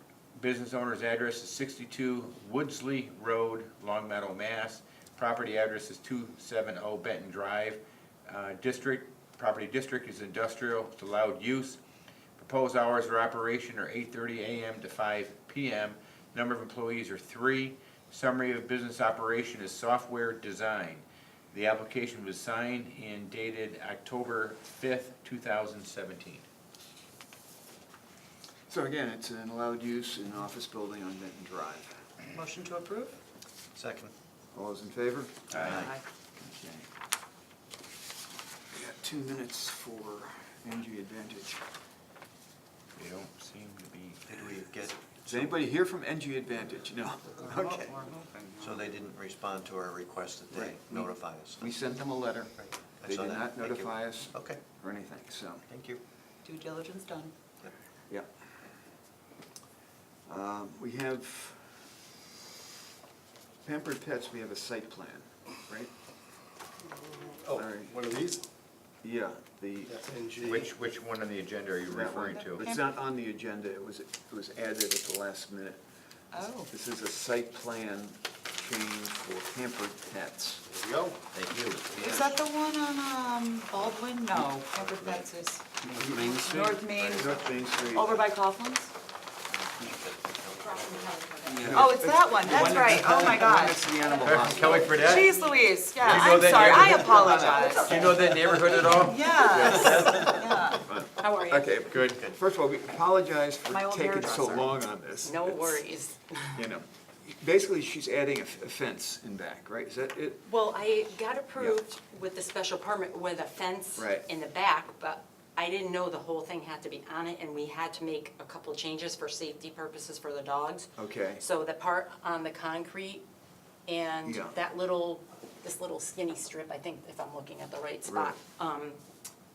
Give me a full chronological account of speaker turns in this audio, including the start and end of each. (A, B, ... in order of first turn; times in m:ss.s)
0:00.4-0:11.8 A
0:12.4-0:26.4 A
0:28.7-0:32.0 B
0:32.3-0:33.2 C
0:33.7-0:34.1 D
0:34.5-0:36.9 B
0:35.5-0:36.0 D
0:35.5-0:35.8 A
0:35.7-0:36.0 C
0:38.7-0:41.6 B
0:43.0-0:44.5 A
0:44.3-0:45.6 D
0:45.2-0:47.9 B
0:47.4-0:48.7 C
0:47.6-0:48.0 D
0:48.6-0:51.7 D
0:50.5-0:52.5 B
0:52.6-0:54.6 D
0:53.0-0:55.6 B
0:55.7-0:56.0 D
0:56.4-0:57.3 C
1:00.3-1:01.7 B
1:03.6-1:05.9 B
1:07.3-1:08.4 E
1:07.5-1:07.9 B
1:09.0-1:09.9 B
1:09.9-1:10.7 E
1:10.4-1:12.6 A
1:11.9-1:15.8 B
1:12.4-1:12.8 C
1:16.3-1:16.7 C
1:16.7-1:20.6 B
1:20.7-1:21.2 E
1:21.3-1:22.4 A
1:22.0-1:25.6 C
1:24.6-1:25.2 D
1:25.8-1:27.3 D
1:26.0-1:26.4 B
1:26.2-1:28.9 C
1:27.0-1:28.2 B
1:29.5-1:31.9 D
1:30.6-1:31.7 F
1:31.5-1:35.1 B
1:31.7-1:34.1 C
1:33.9-1:35.6 F
1:34.2-1:35.3 A
1:34.8-1:38.2 C
1:36.0-1:37.2 A
1:36.0-1:38.6 B
1:36.8-1:38.1 F
1:37.8-1:40.3 A
1:38.1-1:39.0 D
1:38.9-1:40.8 C
1:39.2-1:45.9 B
1:39.7-1:40.2 D
1:41.2-1:41.7 F
1:41.9-1:42.2 A
1:43.7-1:44.8 C
1:45.2-1:46.5 F
1:46.5-1:50.5 B
1:50.4-2:03.2 F
1:54.0-1:54.3 B
2:01.0-2:01.4 B
2:03.8-2:09.0 F
2:04.2-2:04.6 B
2:08.0-2:08.4 B